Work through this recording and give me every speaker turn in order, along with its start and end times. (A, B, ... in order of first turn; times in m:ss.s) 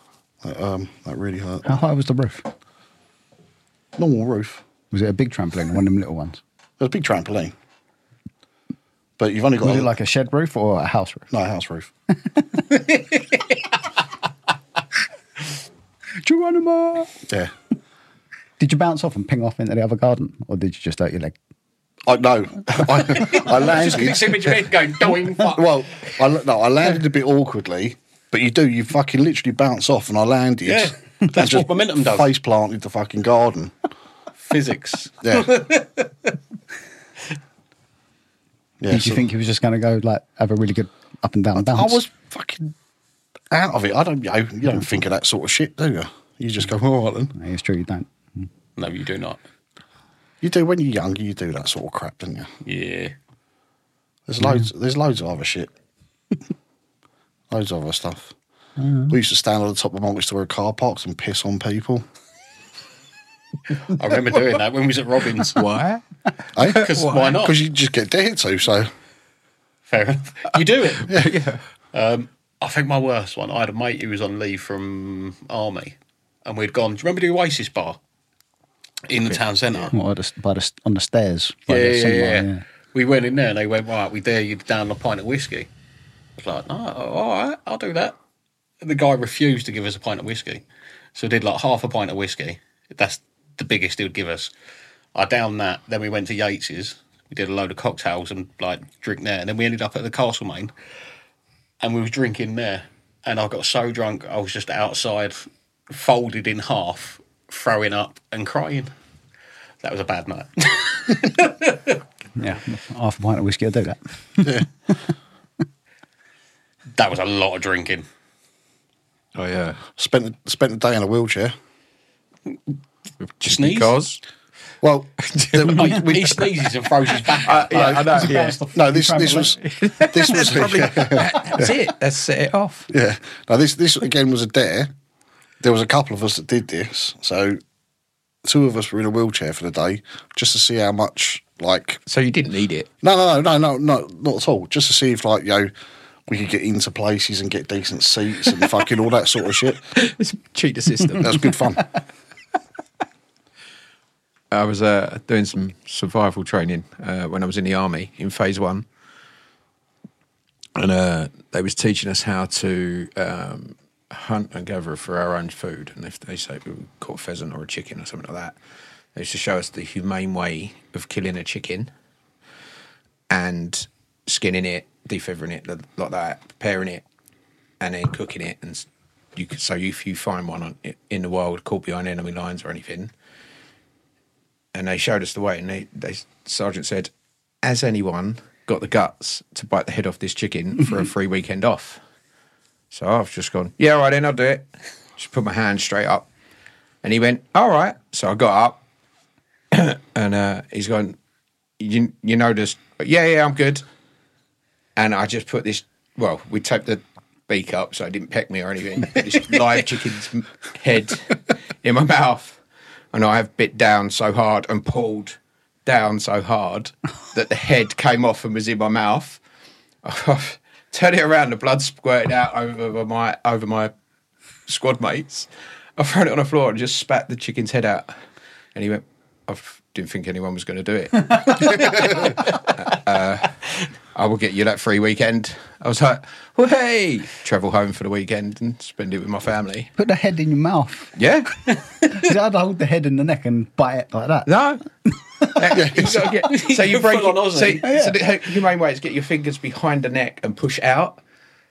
0:00.4-0:01.7 A
0:01.6-0:02.5 B
0:04.0-0:04.6 A
0:04.9-0:06.4 B
0:06.8-0:07.5 A
0:09.2-0:09.9 A
0:09.6-0:11.3 B
0:11.3-0:11.9 A
0:16.2-0:17.1 B
0:18.6-0:21.3 B
0:22.0-0:24.7 A
0:23.1-0:25.8 C
0:25.4-0:33.7 A
0:30.6-0:32.3 C
0:34.4-0:36.3 C
0:35.2-0:35.5 A
0:38.8-0:39.2 A
0:38.9-0:42.0 B
0:41.5-0:42.7 A
0:43.5-0:47.3 A
0:47.3-0:48.4 B
0:48.8-0:49.4 C
0:50.4-0:52.5 A
0:52.6-0:53.1 C
0:54.3-0:55.7 A
0:57.5-0:58.3 A
0:58.8-0:59.1 B
0:59.1-1:02.0 A
1:03.8-1:05.6 C
1:05.4-1:06.0 D
1:06.6-1:08.9 A
1:06.6-1:07.4 D
1:06.6-1:07.6 C
1:09.9-1:11.3 C
1:11.1-1:11.4 A
1:11.1-1:11.6 D
1:11.9-1:18.0 C
1:19.1-1:19.9 C
1:19.3-1:19.8 D
1:19.9-1:22.6 B
1:21.7-1:25.7 C
1:26.4-1:28.2 C
1:28.8-1:30.6 C
1:31.1-1:34.5 C
1:35.1-1:40.7 C
1:41.8-1:48.9 C
1:49.8-1:52.0 C
1:52.4-1:54.6 B
1:57.0-1:58.0 C
1:59.3-1:59.8 D
2:00.0-2:01.5 A
2:03.2-2:04.2 D
2:03.4-2:04.0 C
2:04.8-2:06.4 A
2:05.2-2:06.4 D
2:05.6-2:08.4 C
2:07.1-2:08.6 D
2:07.7-2:09.6 B
2:08.7-2:11.7 A
2:09.4-2:12.9 D
2:12.9-2:14.9 A
2:15.6-2:17.6 A
2:18.4-2:22.0 A
2:22.0-2:22.9 D
2:23.0-2:25.7 A
2:26.3-2:29.8 A
2:29.9-2:31.6 D
2:31.2-2:31.9 A
2:34.5-2:38.9 D
2:40.7-2:48.6 D
2:49.1-2:51.9 D
2:53.3-2:57.0 D
2:57.8-3:03.1 D
3:04.7-3:07.1 D
3:07.6-3:12.0 D
3:12.9-3:16.3 D
3:17.0-3:18.8 D
3:19.7-3:21.2 D
3:21.8-3:23.8 D
3:25.0-3:32.6 D
3:33.1-3:39.4 D
3:40.0-3:43.9 D
3:44.7-3:48.1 D
3:48.7-3:59.9 D
4:00.0-4:01.1 B
4:01.2-4:01.7 D
4:02.1-4:04.5 B
4:04.4-4:04.8 D
4:05.4-4:05.8 B
4:05.5-4:11.2 D
4:05.7-4:06.2 A
4:06.3-4:07.9 C
4:07.8-4:08.1 B